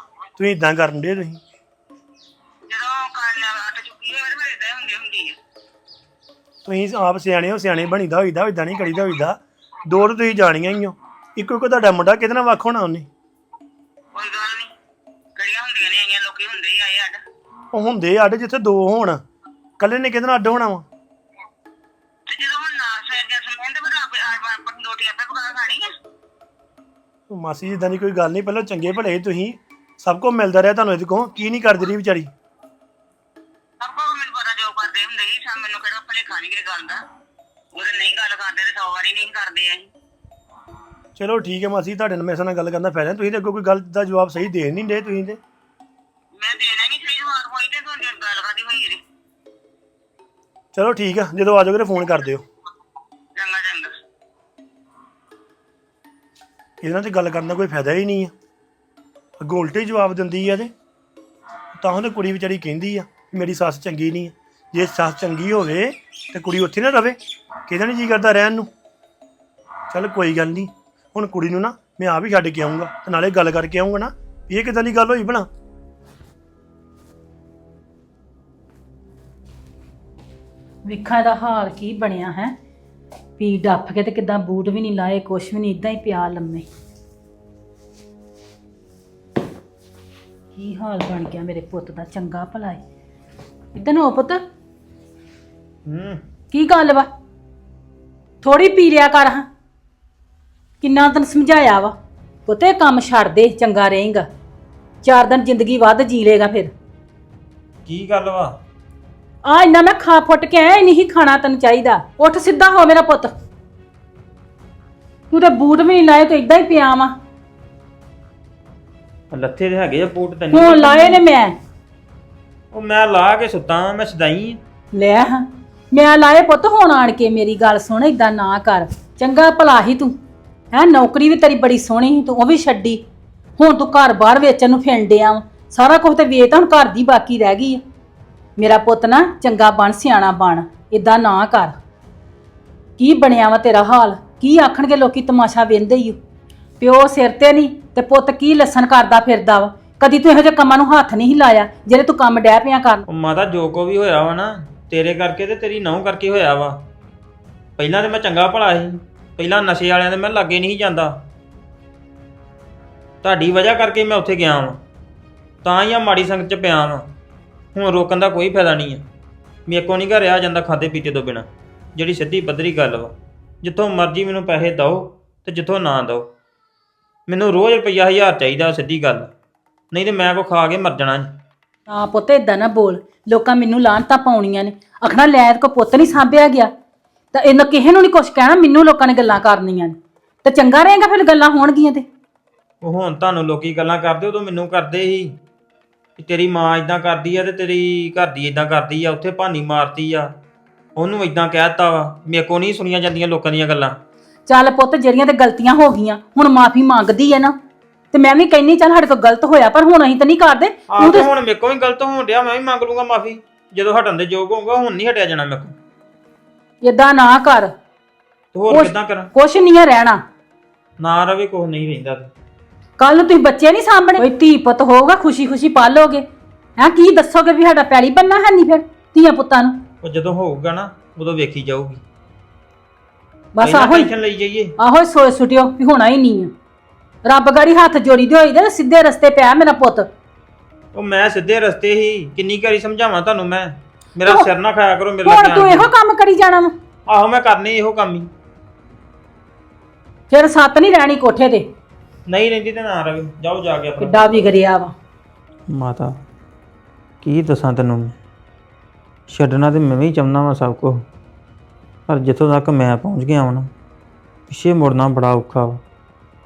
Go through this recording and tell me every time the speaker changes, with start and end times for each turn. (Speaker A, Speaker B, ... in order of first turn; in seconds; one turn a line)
Speaker A: 0.4-1.4
Speaker B: 2.7-5.4
Speaker A: 6.7-13.1
Speaker B: 14.2-14.7
Speaker B: 15.4-17.2
Speaker A: 17.7-19.2
Speaker A: 19.8-20.9
Speaker B: 22.3-25.9
Speaker A: 27.3-32.3
Speaker B: 33.8-37.0
Speaker B: 37.7-39.9
Speaker A: 41.2-45.4
Speaker B: 46.4-49.0
Speaker A: 50.7-52.5
Speaker B: 53.4-54.0
Speaker A: 56.8-58.3
Speaker A: 59.4-60.7
Speaker A: 61.8-68.7
Speaker A: 69.9-75.5
Speaker C: 80.9-82.6
Speaker C: 83.4-86.7
Speaker C: 90.5-92.8
Speaker C: 93.8-94.4
Speaker D: 95.9-96.2
Speaker C: 96.5-97.1
Speaker C: 98.4-99.5
Speaker C: 100.8-102.0
Speaker C: 102.5-104.3
Speaker C: 105.0-106.7
Speaker D: 107.9-108.6
Speaker C: 109.5-113.3
Speaker C: 115.3-117.2
Speaker D: 119.3-121.2
Speaker C: 120.5-121.5
Speaker D: 122.7-124.6
Speaker C: 125.0-130.2
Speaker C: 130.7-133.0
Speaker C: 133.6-137.8
Speaker C: 138.6-141.8
Speaker C: 143.0-146.2
Speaker C: 146.8-153.0
Speaker D: 153.1-156.8
Speaker D: 157.8-161.2
Speaker D: 163.2-164.8
Speaker D: 165.6-167.1
Speaker D: 167.8-169.0
Speaker D: 169.7-176.3
Speaker D: 177.3-179.3
Speaker D: 179.9-181.3
Speaker C: 181.9-186.7
Speaker C: 187.3-192.1
Speaker D: 192.8-195.3
Speaker D: 196.2-200.3
Speaker D: 201.0-204.0
Speaker C: 204.5-207.6
Speaker C: 208.1-211.3
Speaker D: 210.9-215.8
Speaker C: 216.8-217.7
Speaker D: 218.5-219.3
Speaker C: 218.7-220.2
Speaker D: 221.0-222.3
Speaker C: 223.0-226.2
Speaker C: 226.8-229.8
Speaker D: 230.0-232.0
Speaker C: 233.6-234.1
Speaker D: 233.6-234.8
Speaker C: 234.8-236.5
Speaker C: 237.3-240.1
Speaker D: 240.9-245.9
Speaker C: 245.2-246.7
Speaker D: 247.1-248.3
Speaker C: 250.3-251.7
Speaker D: 252.3-254.5
Speaker C: 254.0-254.9
Speaker D: 255.7-256.2
Speaker D: 257.2-258.1
Speaker D: 259.3-261.1
Speaker D: 262.1-263.7
Speaker D: 264.5-265.8